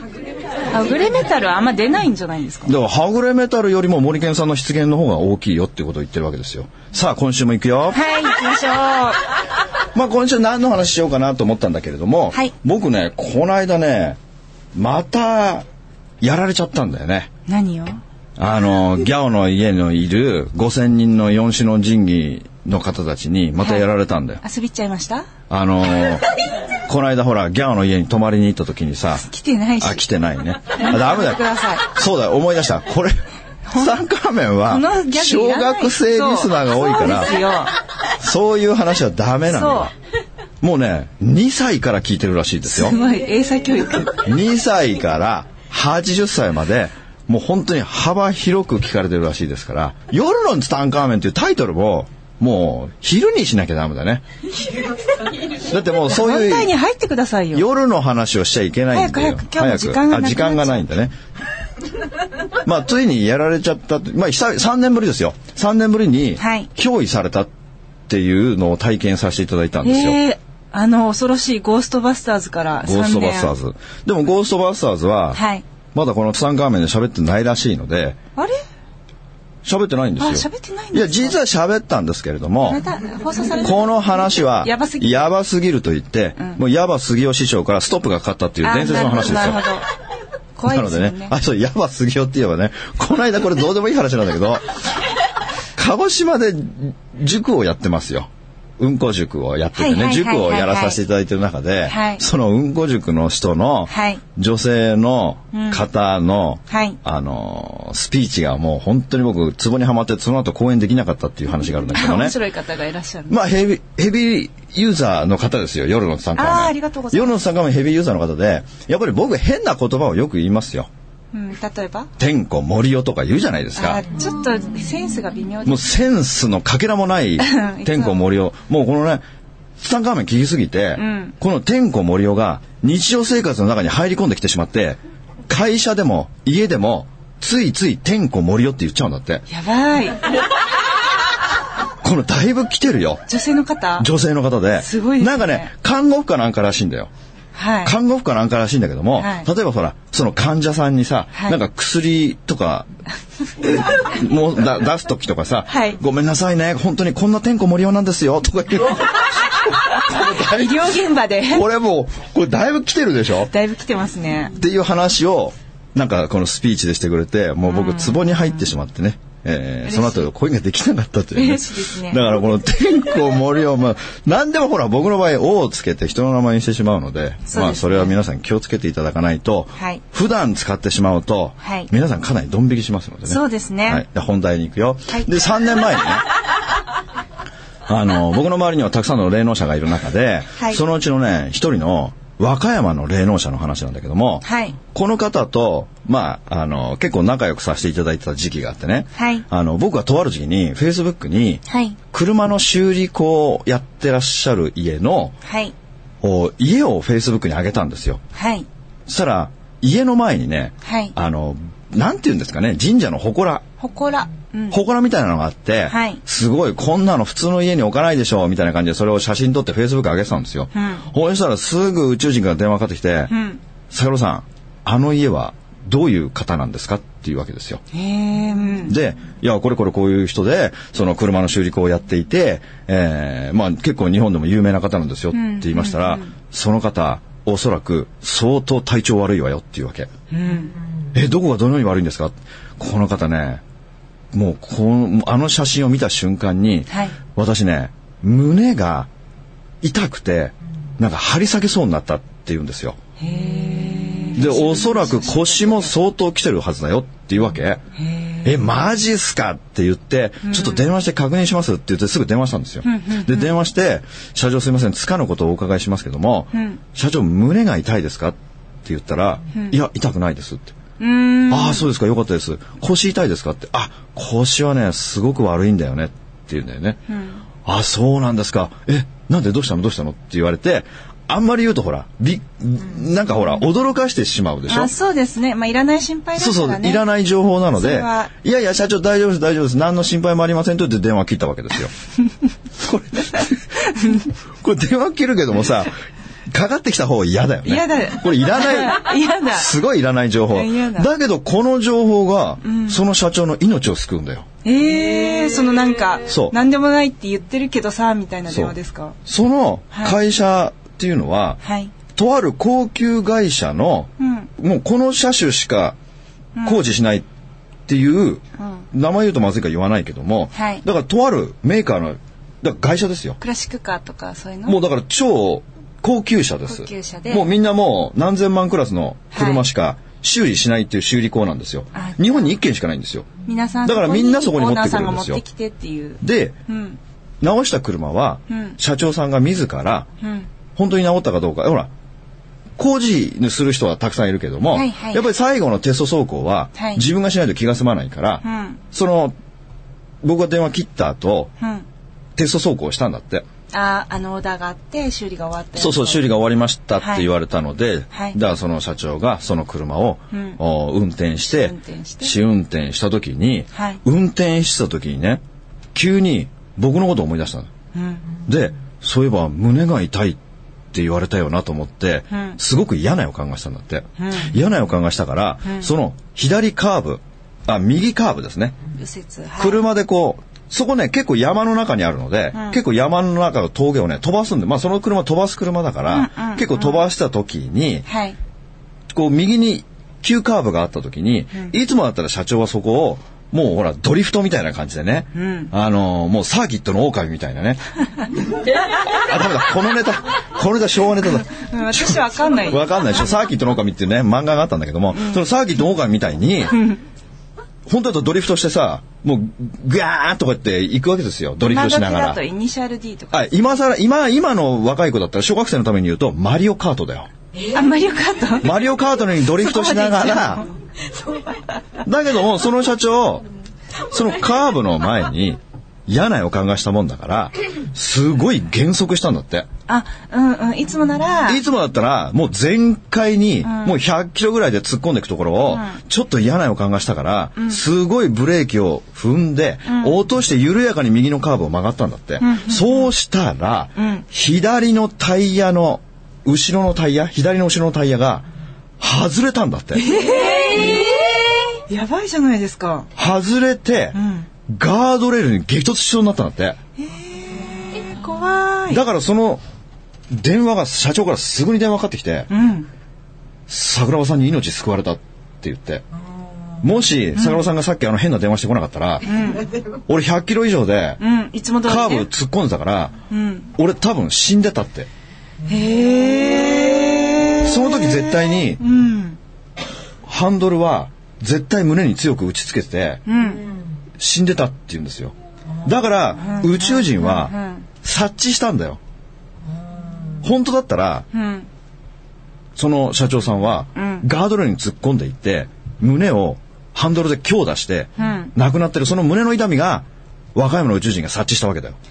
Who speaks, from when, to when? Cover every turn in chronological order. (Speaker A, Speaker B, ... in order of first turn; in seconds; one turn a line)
Speaker A: 0.7-2.7
Speaker B: 2.6-8.1
Speaker A: 7.9-9.2
Speaker B: 9.9-14.2
Speaker B: 14.7-15.6
Speaker B: 16.2-17.3
Speaker A: 17.4-18.0
Speaker B: 18.4-24.4
Speaker A: 23.6-23.9
Speaker A: 24.4-25.3
Speaker B: 25.5-26.3
Speaker B: 26.8-29.3
Speaker A: 29.2-30.0
Speaker B: 29.8-33.2
Speaker A: 30.8-31.9
Speaker A: 33.7-34.0
Speaker B: 33.7-37.4
Speaker A: 34.7-37.7
Speaker B: 38.1-39.9
Speaker A: 39.5-39.9
Speaker B: 40.6-43.0
Speaker A: 42.7-44.2
Speaker B: 44.1-54.2
Speaker B: 55.6-56.7
Speaker A: 56.1-57.6
Speaker B: 57.5-61.1
Speaker A: 58.9-60.9
Speaker B: 62.6-67.5
Speaker A: 66.4-66.7
Speaker B: 68.1-70.2
Speaker A: 69.8-73.5
Speaker B: 72.8-75.4
Speaker A: 75.3-75.6
Speaker B: 75.9-78.2
Speaker B: 79.6-82.8
Speaker A: 80.2-81.4
Speaker A: 82.7-85.3
Speaker B: 83.6-89.7
Speaker A: 88.6-89.8
Speaker A: 90.5-91.3
Speaker B: 90.7-94.8
Speaker B: 95.8-112.3
Speaker A: 99.7-101.0
Speaker A: 101.8-102.2
Speaker A: 103.9-104.2
Speaker A: 105.5-105.8
Speaker A: 106.7-107.0
Speaker A: 111.8-113.4
Speaker B: 113.3-120.9
Speaker A: 116.3-117.4
Speaker A: 121.3-122.1
Speaker B: 122.2-124.0
Speaker A: 123.8-125.9
Speaker B: 125.6-129.2
Speaker A: 127.4-128.2
Speaker B: 129.8-139.4
Speaker A: 130.9-131.3
Speaker A: 139.5-140.2
Speaker B: 142.0-143.2
Speaker A: 143.3-144.1
Speaker B: 144.0-147.1
Speaker A: 144.8-145.7
Speaker A: 147.5-147.9
Speaker B: 147.8-152.9
Speaker A: 149.2-149.5
Speaker A: 151.3-151.6
Speaker B: 153.6-160.9
Speaker A: 155.7-156.0
Speaker A: 160.0-161.7
Speaker B: 161.5-163.5
Speaker A: 163.4-164.5
Speaker B: 164.5-186.3
Speaker A: 167.6-168.7
Speaker A: 169.8-170.3
Speaker A: 171.3-172.2
Speaker A: 177.5-178.1
Speaker A: 179.8-180.0
Speaker A: 181.6-181.9
Speaker A: 183.3-184.0
Speaker B: 187.9-205.3
Speaker A: 194.4-194.8
Speaker A: 199.2-199.4
Speaker A: 201.7-202.0
Speaker A: 205.4-205.7
Speaker B: 206.2-208.2
Speaker A: 208.3-208.7
Speaker B: 209.1-213.6
Speaker A: 210.8-211.1
Speaker A: 213.8-214.8
Speaker B: 214.7-223.3
Speaker A: 215.9-216.2
Speaker A: 220.7-221.1
Speaker A: 223.3-223.6
Speaker B: 223.9-227.8
Speaker A: 227.9-229.0
Speaker B: 228.9-240.1
Speaker A: 235.3-236.3
Speaker A: 240.3-240.8
Speaker B: 241.1-243.6
Speaker B: 244.3-249.1
Speaker A: 246.9-247.2
Speaker B: 249.8-253.0
Speaker A: 253.2-255.9
Speaker B: 254.3-257.8
Speaker A: 257.9-258.5
Speaker B: 258.4-270.7
Speaker A: 260.4-260.8
Speaker A: 262.8-263.5
Speaker A: 266.5-266.8
Speaker A: 271.0-271.9
Speaker B: 271.5-277.0
Speaker A: 277.1-277.4
Speaker B: 277.6-284.9
Speaker A: 284.7-287.0
Speaker B: 286.4-291.9
Speaker A: 287.8-288.3
Speaker B: 292.8-293.6
Speaker A: 293.3-294.2
Speaker B: 294.6-295.9
Speaker B: 296.5-304.4
Speaker A: 297.6-299.7
Speaker A: 300.5-301.1
Speaker A: 302.6-303.0
Speaker A: 304.6-309.2
Speaker B: 306.3-306.5
Speaker B: 308.5-311.6
Speaker A: 309.9-310.2
Speaker A: 311.6-311.9
Speaker B: 312.1-315.9
Speaker A: 314.2-314.5
Speaker A: 316.6-316.8
Speaker B: 316.6-317.2
Speaker B: 317.9-323.4
Speaker A: 318.6-318.9
Speaker A: 320.5-320.8
Speaker A: 323.4-324.8
Speaker B: 324.6-333.3
Speaker A: 326.7-327.5
Speaker A: 329.3-329.6
Speaker A: 331.9-332.6
Speaker A: 333.4-337.0
Speaker B: 333.8-335.4
Speaker B: 336.2-336.6
Speaker B: 337.4-340.1
Speaker A: 338.5-338.8
Speaker A: 340.2-340.5
Speaker B: 340.8-341.9
Speaker B: 342.8-349.3
Speaker A: 344.7-345.2
Speaker A: 346.8-347.0
Speaker A: 348.4-348.8
Speaker B: 350.2-351.5
Speaker A: 351.6-351.8
Speaker B: 352.4-353.4
Speaker A: 353.7-356.3
Speaker B: 355.8-365.4
Speaker A: 357.0-357.3
Speaker A: 358.1-358.4
Speaker A: 360.3-360.6
Speaker A: 361.5-362.3
Speaker A: 363.7-364.0
Speaker B: 365.9-367.7
Speaker A: 367.9-368.2
Speaker B: 368.4-370.4
Speaker B: 370.9-378.8
Speaker A: 372.3-372.6
Speaker A: 374.2-374.5
Speaker A: 378.9-379.8
Speaker B: 379.6-388.1
Speaker A: 382.5-382.8
Speaker A: 386.1-387.0
Speaker A: 388.1-388.4
Speaker B: 389.1-397.8
Speaker A: 395.3-395.7
Speaker B: 399.0-406.9
Speaker A: 401.4-402.9
Speaker B: 407.9-412.4
Speaker A: 411.6-413.6
Speaker B: 413.3-417.3
Speaker A: 417.6-418.7
Speaker B: 418.6-420.6
Speaker A: 419.4-421.8
Speaker B: 422.0-423.4
Speaker B: 424.1-429.7
Speaker A: 429.9-431.6
Speaker B: 431.4-448.4
Speaker A: 433.6-434.0
Speaker A: 435.7-436.0
Speaker A: 437.6-437.8
Speaker A: 439.9-440.2
Speaker A: 442.4-443.1
Speaker A: 443.9-444.2
Speaker B: 449.0-450.1
Speaker A: 449.9-451.2
Speaker A: 451.9-453.1
Speaker B: 453.1-456.8
Speaker A: 454.1-454.5
Speaker A: 457.0-459.0
Speaker B: 458.9-459.6
Speaker B: 460.3-462.5
Speaker A: 462.5-462.9
Speaker B: 463.7-466.0
Speaker B: 466.8-469.4
Speaker A: 467.4-467.6
Speaker A: 469.2-469.7
Speaker B: 470.1-471.2
Speaker A: 471.2-472.3
Speaker B: 471.8-473.1
Speaker A: 473.3-473.7
Speaker B: 473.7-475.1
Speaker A: 475.6-479.4
Speaker B: 477.6-478.8
Speaker B: 480.2-483.2
Speaker A: 483.2-483.7
Speaker B: 484.2-489.0
Speaker A: 486.4-487.9
Speaker B: 490.4-491.3
Speaker A: 491.3-491.7
Speaker B: 492.8-501.9
Speaker A: 493.9-494.2
Speaker A: 498.2-498.5